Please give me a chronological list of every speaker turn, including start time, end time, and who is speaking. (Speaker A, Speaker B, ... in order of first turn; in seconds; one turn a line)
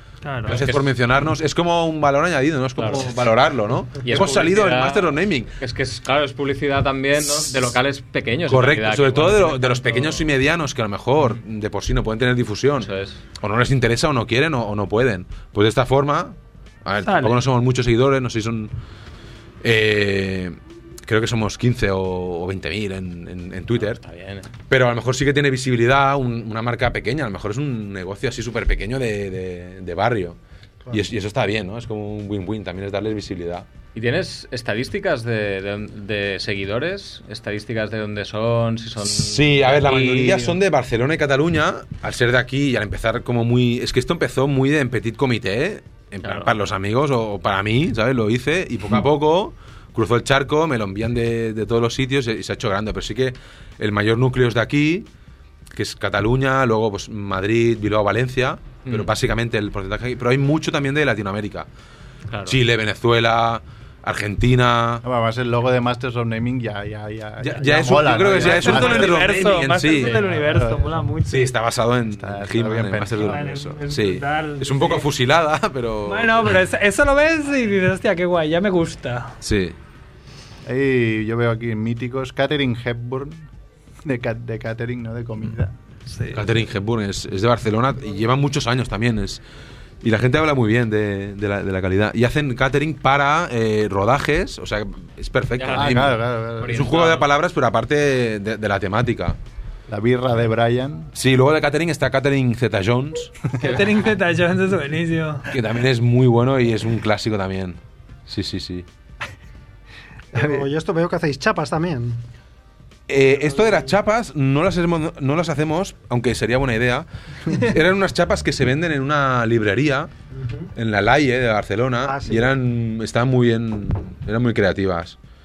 Speaker A: 0.2-0.6
Speaker B: 0.4-5.5
Speaker C: 0.5-0.9
Speaker C: 2.8-3.2
Speaker C: 4.0-10.3
Speaker B: 8.4-12.9
Speaker C: 12.8-13.2
Speaker B: 13.4-18.7
Speaker A: 17.0-17.4
Speaker B: 19.6-24.0
Speaker C: 23.8-24.5
Speaker B: 24.7-30.4
Speaker B: 30.9-33.6
Speaker C: 33.9-40.6
Speaker B: 39.0-55.1
Speaker C: 46.2-46.5
Speaker B: 55.7-61.7
Speaker C: 58.8-59.1
Speaker C: 62.3-62.6
Speaker B: 62.5-65.0
Speaker D: 65.0-69.3
Speaker B: 67.4-70.3
Speaker A: 68.4-71.5
Speaker D: 70.0-71.1
Speaker B: 71.3-76.5
Speaker D: 72.1-73.4
Speaker A: 73.2-75.1
Speaker A: 76.0-79.3
Speaker B: 79.4-79.8
Speaker D: 80.6-83.5
Speaker D: 84.0-85.7
Speaker A: 86.1-86.4
Speaker B: 86.3-89.4
Speaker B: 90.0-99.4
Speaker C: 95.6-97.3
Speaker D: 95.7-96.9
Speaker D: 99.9-101.1
Speaker B: 101.1-103.3
Speaker C: 103.6-103.9
Speaker A: 103.6-105.5
Speaker B: 105.5-108.9
Speaker D: 110.3-110.7
Speaker E: 110.3-112.2
Speaker B: 113.1-120.1
Speaker E: 113.5-113.9
Speaker E: 120.3-120.7
Speaker B: 120.7-125.2
Speaker E: 122.0-122.5